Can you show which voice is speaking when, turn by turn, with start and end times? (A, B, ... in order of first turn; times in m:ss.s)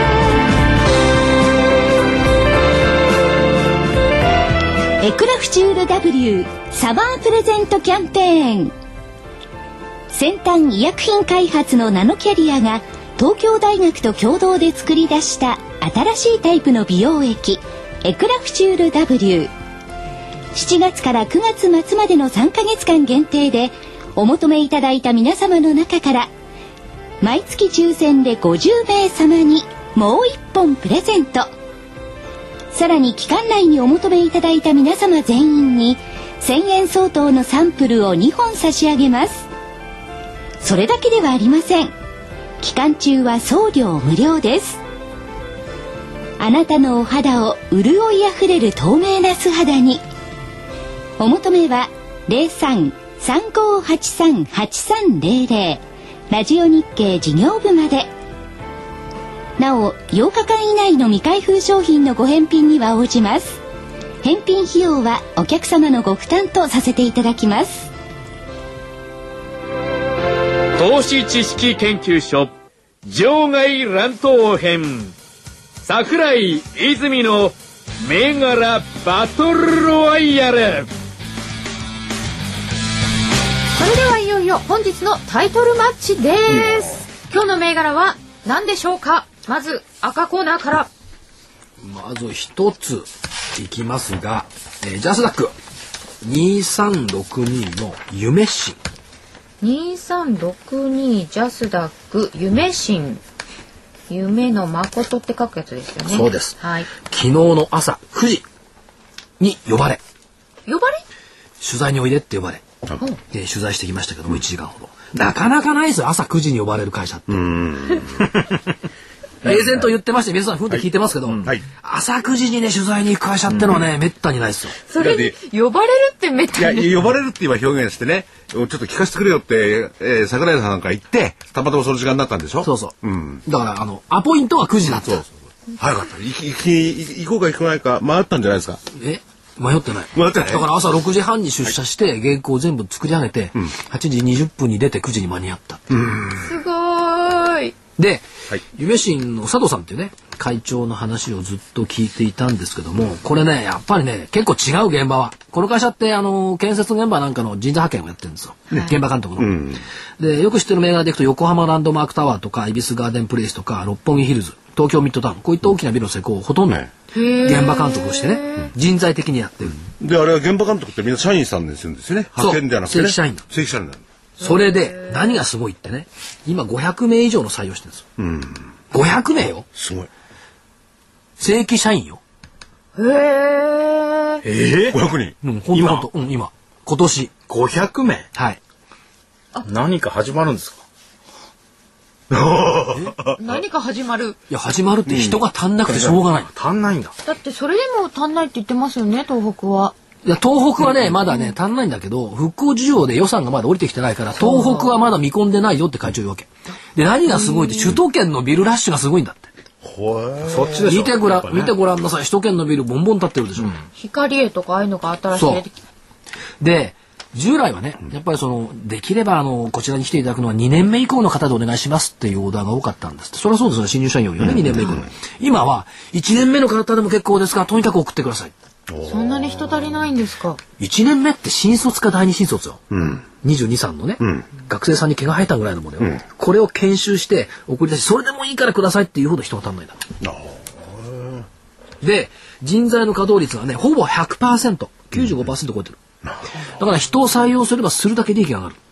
0:05.0-0:08.7 A
0:10.1-0:19.5 A
0:20.5-0:26.3 A
0:27.2-0:31.5 A
0:32.7-0:39.5 A
0:40.6-0:41.9 A
0:42.6-0:44.8 A
0:46.4-0:50.0 A
0:51.2-0:58.1 A
0:59.6-1:03.6 A
1:04.2-1:07.9 A
1:10.8-1:12.5 B
1:13.0-1:15.1 B
1:15.8-1:20.9 B
1:23.8-1:30.9 C
1:31.8-1:35.5 D
1:36.2-1:38.8 D
1:39.6-1:43.2 C
1:44.1-1:46.9 C
1:46.1-1:48.4 D
1:49.4-1:50.0 D
1:50.7-1:51.0 C
1:51.6-1:52.6 D
1:53.3-1:57.5 D
1:57.3-1:58.4 E
1:59.4-2:04.8 D
1:59.4-1:59.8 E
2:04.9-2:07.0 C
2:05.0-2:05.4 E
2:06.6-2:13.4 E
2:12.6-2:15.2 D
2:14.9-2:18.8 E
2:18.9-2:25.8 D
2:20.1-2:20.7 E
2:25.9-2:26.5 E
2:26.4-2:27.8 C
2:28.0-2:46.8 D
2:39.4-2:39.8 E
2:47.1-2:48.7 C
2:47.4-2:49.8 D
2:49.8-2:54.0 E
2:52.4-2:53.4 D
2:54.4-2:58.0 D
2:54.4-2:55.4 C
2:58.2-2:58.7 E
2:58.9-2:59.7 D
2:59.7-3:00.1 E
3:01.4-3:02.2 D
3:03.0-3:04.4 C
3:04.4-3:05.0 F
3:04.9-3:05.4 E
3:05.4-3:07.3 D
3:05.7-3:06.0 F
3:07.5-3:08.3 F
3:08.3-3:08.6 D
3:09.6-3:10.8 F
3:12.3-3:13.6 E
3:13.4-3:14.4 C
3:14.5-3:16.5 D
3:15.1-3:16.2 E
3:16.5-3:17.1 F
3:17.2-3:19.9 C
3:20.2-3:29.5 D
3:21.3-3:21.5 C
3:24.4-3:25.0 C
3:27.3-3:27.9 C
3:29.8-3:31.0 E
3:30.4-3:31.7 F
3:30.8-3:33.7 D
3:33.6-3:33.9 F
3:34.0-3:35.7 C
3:35.3-3:35.6 D
3:36.6-3:48.5 D
3:44.4-3:45.0 E
3:48.9-3:50.0 E
3:49.0-3:50.6 C
3:50.8-3:52.8 D
3:52.9-3:53.2 E
3:53.4-4:00.0 D
3:54.2-3:54.5 E
4:00.2-4:01.4 E
4:02.0-4:06.0 D
4:06.8-4:08.8 D